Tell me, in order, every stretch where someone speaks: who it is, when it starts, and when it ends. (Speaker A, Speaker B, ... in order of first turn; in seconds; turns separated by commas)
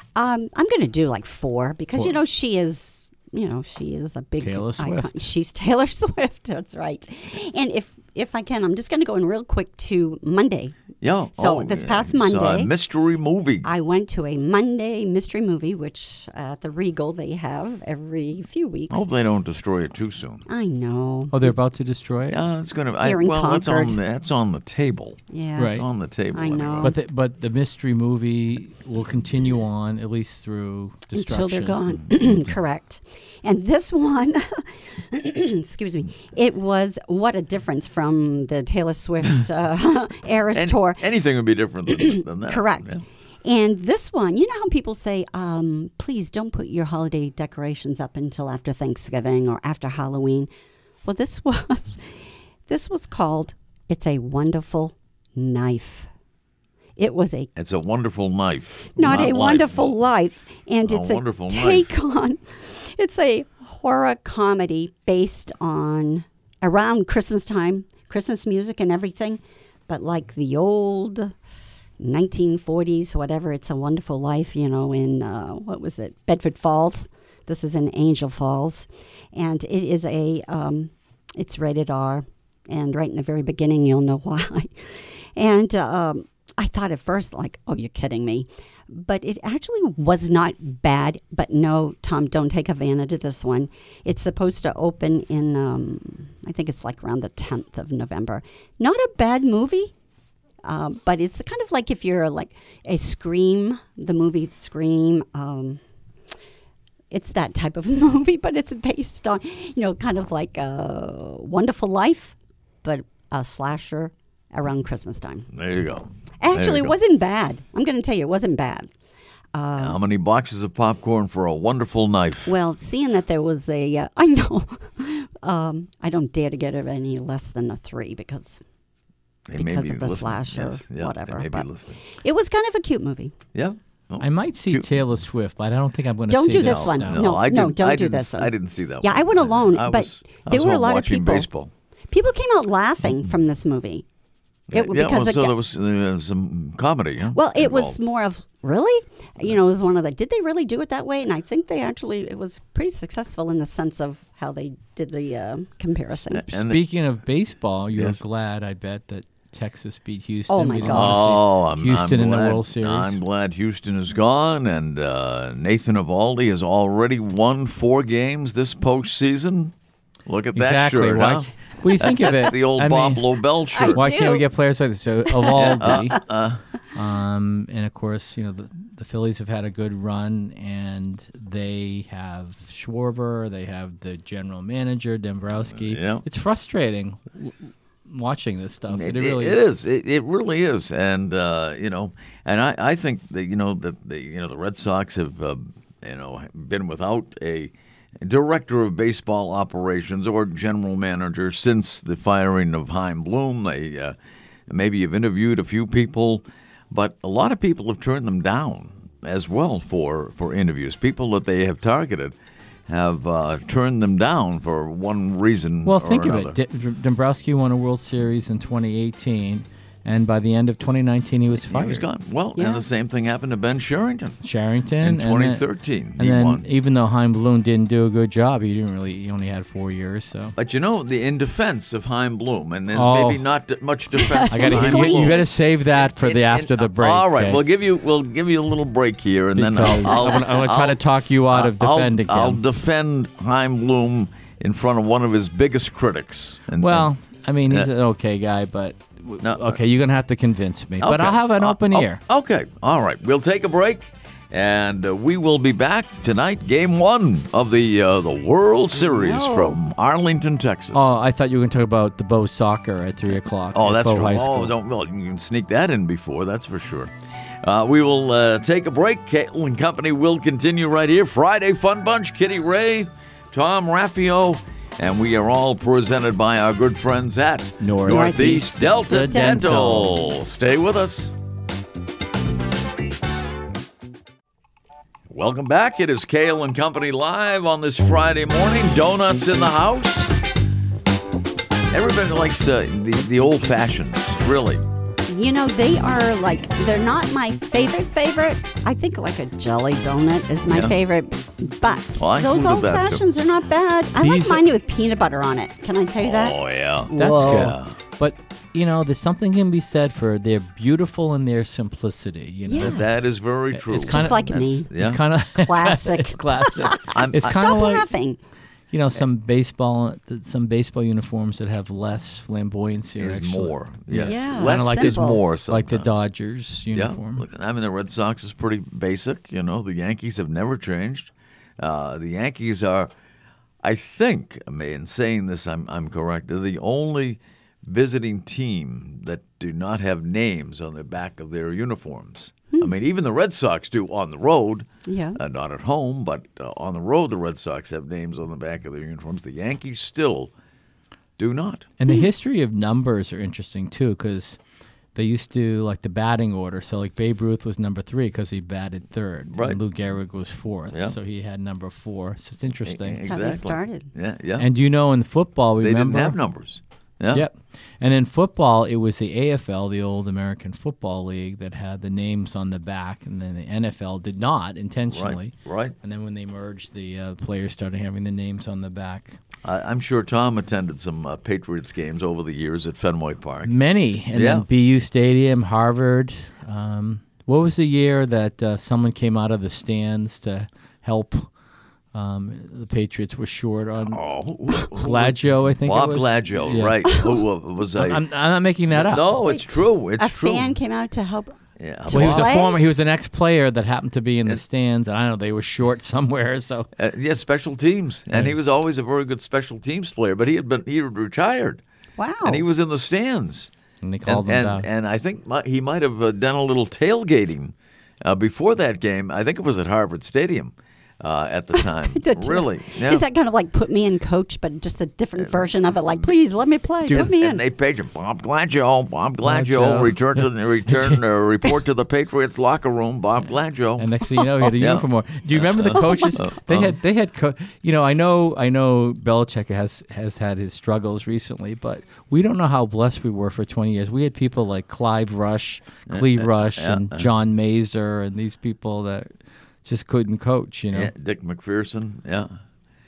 Speaker A: 0.1-10.8, Speaker B: 4.4-5.2, Speaker C: 11.0-13.7, Speaker A: 11.3-12.7, Speaker A: 13.6-19.1, Speaker C: 18.9-20.4, Speaker A: 20.5-21.5, Speaker B: 21.3-22.4, Speaker C: 22.3-26.9, Speaker A: 23.0-24.0, Speaker A: 25.3-27.0, Speaker B: 25.6-25.9, Speaker B: 26.8-31.8, Speaker A: 31.1-41.0, Speaker C: 40.5-43.0, Speaker A: 41.9-50.5, Speaker A: 51.0-52.0, Speaker A: 52.7-56.1, Speaker A: 57.0-57.5, Speaker C: 57.6-60.0, Speaker A: 59.0-71.4, Speaker C: 60.9-61.9, Speaker A: 72.0-99.9, Speaker A: 100.6-105.8, Speaker A: 107.1-115.5, Speaker C: 115.5-117.0, Speaker A: 116.4-118.9, Speaker A: 119.5-120.0, Speaker C: 119.8-122.5, Speaker A: 122.5-128.6, Speaker C: 129.5-132.0, Speaker A: 129.6-133.3, Speaker C: 133.5-134.9, Speaker B: 134.2-137.2, Speaker A: 136.3-141.5, Speaker C: 136.5-141.7, Speaker A: 142.1-144.1, Speaker C: 144.7-148.0, Speaker A: 144.7-145.6, Speaker A: 147.3-156.4, Speaker C: 156.3-156.8, Speaker B: 156.5-163.2, Speaker A: 160.5-161.4, Speaker C: 160.9-169.7, Speaker C: 170.3-174.1, Speaker B: 170.6-173.4, Speaker A: 172.1-172.4, Speaker A: 173.7-174.4, Speaker B: 173.9-176.2, Speaker A: 175.3-176.2, Speaker C: 175.5-176.6, Speaker B: 176.9-187.6, Speaker C: 185.7-186.2, Speaker B: 188.1-189.7, Speaker C: 188.9-204.2, Speaker C: 204.7-212.3, Speaker C: 212.9-216.6, Speaker B: 215.8-222.1, Speaker C: 221.6-224.4, Speaker A: 222.6-222.8, Speaker B: 224.4-225.7, Speaker C: 225.0-226.7, Speaker B: 226.2-230.6, Speaker C: 230.6-247.1, Speaker B: 232.9-233.4, Speaker A: 234.1-235.5, Speaker B: 234.5-237.6, Speaker B: 239.6-242.6, Speaker B: 246.8-252.2, Speaker C: 249.4-249.8, Speaker C: 251.0-261.1, Speaker A: 258.9-259.8, Speaker B: 260.9-264.7, Speaker C: 263.7-267.1, Speaker C: 267.6-281.3, Speaker B: 277.8-280.2, Speaker A: 278.1-278.6, Speaker A: 279.1-279.6, Speaker C: 285.3-290.4, Speaker C: 291.9-294.8, Speaker A: 295.3-307.8, Speaker C: 300.7-301.0, Speaker C: 302.2-303.2, Speaker B: 304.2-304.6, Speaker C: 306.2-308.0, Speaker B: 307.2-318.1, Speaker A: 312.7-313.3, Speaker C: 312.8-315.2, Speaker A: 314.1-314.9, Speaker A: 315.6-318.4, Speaker C: 317.1-317.9, Speaker B: 318.9-327.4, Speaker C: 323.2-326.2, Speaker A: 324.2-325.4, Speaker C: 326.9-333.1, Speaker C: 333.8-350.5, Speaker A: 345.1-345.4, Speaker C: 351.4-351.9, Speaker B: 352.0-354.6, Speaker B: 355.1-363.2, Speaker C: 359.5-359.8, Speaker C: 362.9-364.7, Speaker A: 363.2-364.1, Speaker B: 364.6-366.4, Speaker C: 365.8-367.5, Speaker B: 367.3-379.4, Speaker C: 375.1-375.9, Speaker C: 379.6-383.7, Speaker B: 383.7-391.5, Speaker C: 384.3-384.7, Speaker B: 392.1-394.2, Speaker C: 394.1-398.2, Speaker B: 394.8-397.2, Speaker B: 398.0-399.3, Speaker C: 398.9-400.8, Speaker A: 399.5-402.8, Speaker C: 401.8-402.6, Speaker B: 402.1-406.9, Speaker C: 407.0-411.8, Speaker A: 412.2-412.6, Speaker C: 412.4-413.7, Speaker B: 414.0-414.9, Speaker C: 414.3-423.2, Speaker A: 421.8-427.6, Speaker C: 427.1-434.1, Speaker B: 429.4-431.2, Speaker B: 434.0-449.3, Speaker C: 434.6-437.0, Speaker A: 436.0-436.4, Speaker C: 446.1-447.3, Speaker B: 449.9-451.1, Speaker C: 450.9-452.6